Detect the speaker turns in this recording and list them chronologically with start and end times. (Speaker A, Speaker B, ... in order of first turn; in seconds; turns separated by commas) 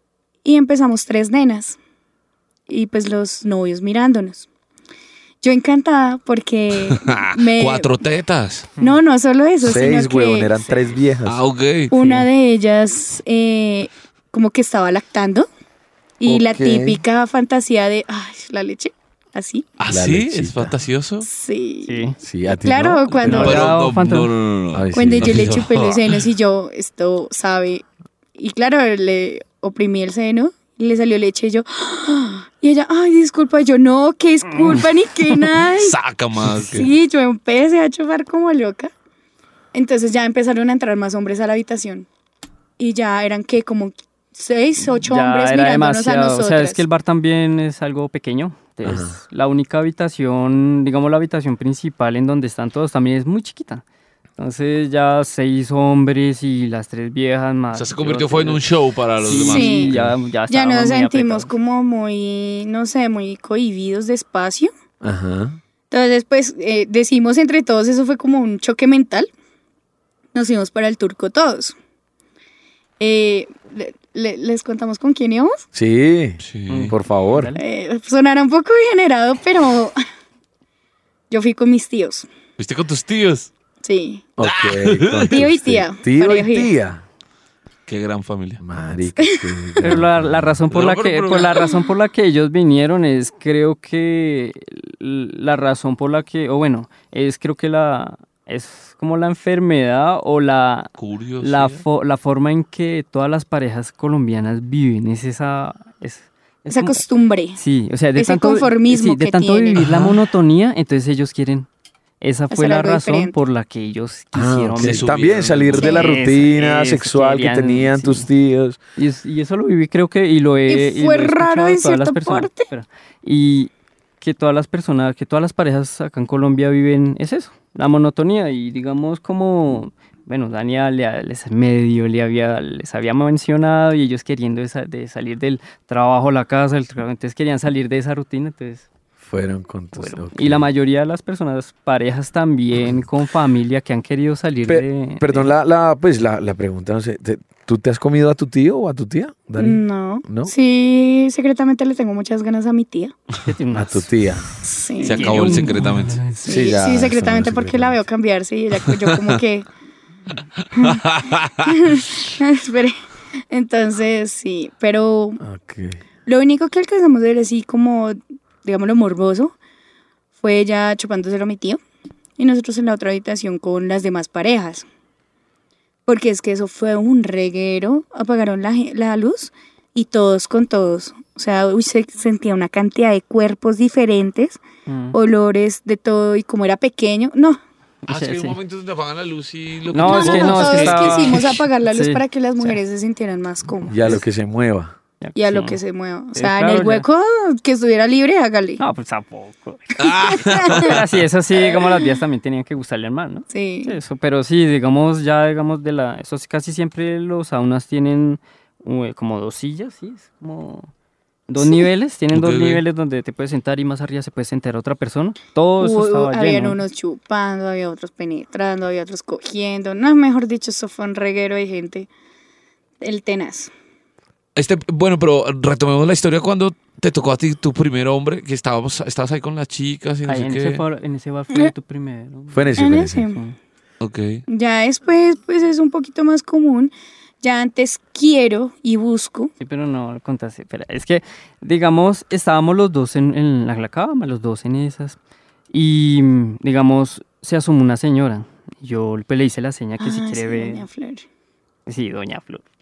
Speaker A: 0.4-1.8, Speaker A: 2.7-4.5, Speaker A: 5.4-7.9, Speaker B: 6.8-8.7, Speaker A: 8.8-10.8, Speaker C: 9.6-11.4, Speaker B: 11.2-11.9, Speaker A: 11.9-15.5, Speaker D: 11.9-12.3, Speaker A: 16.2-19.7, Speaker C: 16.2-17.0, Speaker B: 19.8-21.3, Speaker C: 19.9-20.7, Speaker A: 21.2-23.6, Speaker D: 21.8-22.2, Speaker C: 22.2-23.6, Speaker B: 23.1-26.2, Speaker D: 23.2-24.3, Speaker C: 24.7-25.6, Speaker A: 24.9-27.8, Speaker A: 28.4-36.0, Speaker D: 34.5-34.8, Speaker B: 35.7-36.9, Speaker C: 36.5-36.9, Speaker A: 36.7-38.9, Speaker A: 39.7-42.0, Speaker A: 42.8-46.8, Speaker D: 44.8-53.8, Speaker C: 48.8-49.2, Speaker D: 54.4-58.6, Speaker B: 57.7-60.1, Speaker D: 59.2-61.5, Speaker A: 59.3-59.9, Speaker A: 60.5-64.7, Speaker C: 65.0-65.6, Speaker A: 65.9-69.3, Speaker A: 70.3-71.7, Speaker A: 73.0-75.7, Speaker C: 75.7-77.5, Speaker B: 76.4-76.9, Speaker D: 76.7-77.6, Speaker A: 77.6-79.9, Speaker A: 81.3-82.3, Speaker B: 82.6-83.5, Speaker A: 83.8-84.2, Speaker C: 84.4-87.0, Speaker B: 84.4-85.3, Speaker A: 85.3-86.7, Speaker B: 87.9-88.6, Speaker C: 88.6-90.6, Speaker A: 89.2-89.5, Speaker D: 89.8-107.0, Speaker B: 90.7-91.8, Speaker A: 91.3-91.8, Speaker B: 101.0-101.8, Speaker A: 106.7-107.6, Speaker D: 107.5-111.7, Speaker A: 108.2-109.8, Speaker B: 109.7-110.2, Speaker D: 112.2-115.0, Speaker A: 112.5-113.3, Speaker C: 114.3-118.8, Speaker B: 114.8-115.9, Speaker A: 115.8-116.1, Speaker D: 115.8-118.2, Speaker D: 119.0-138.8, Speaker A: 120.7-122.7, Speaker C: 139.2-140.7, Speaker D: 139.9-145.5, Speaker C: 144.7-150.5, Speaker A: 149.6-153.1, Speaker D: 153.4-154.1, Speaker C: 153.7-154.5, Speaker A: 154.6-155.6, Speaker D: 155.0-156.7, Speaker B: 155.0-156.2, Speaker A: 156.4-159.7, Speaker C: 156.4-158.0, Speaker B: 158.8-159.4, Speaker B: 160.6-161.5, Speaker A: 160.8-161.0, Speaker A: 161.6-162.9, Speaker A: 163.5-165.4, Speaker C: 165.4-166.0, Speaker A: 166.2-169.5, Speaker A: 170.4-171.8, Speaker A: 172.4-174.8, Speaker A: 176.1-184.6, Speaker D: 184.9-185.2, Speaker A: 185.1-187.6, Speaker D: 188.0-188.6, Speaker B: 188.1-191.6, Speaker D: 189.9-192.8, Speaker A: 190.0-194.0, Speaker C: 193.9-194.9, Speaker D: 193.9-194.2, Speaker D: 195.2-195.8, Speaker A: 195.4-198.8, Speaker D: 196.3-197.1, Speaker D: 198.8-210.9, Speaker B: 200.0-201.0, Speaker A: 200.0-201.0, Speaker A: 201.6-202.0, Speaker A: 203.5-203.9, Speaker D: 211.5-216.8, Speaker B: 212.3-212.8, Speaker A: 215.8-222.1, Speaker A: 223.0-223.7, Speaker B: 224.6-230.8, Speaker D: 230.3-233.6, Speaker C: 232.5-233.3, Speaker A: 232.8-233.4, Speaker B: 234.0-234.4, Speaker A: 234.5-239.5, Speaker D: 239.6-245.2, Speaker D: 245.7-250.9, Speaker A: 250.0-251.2, Speaker D: 251.8-252.6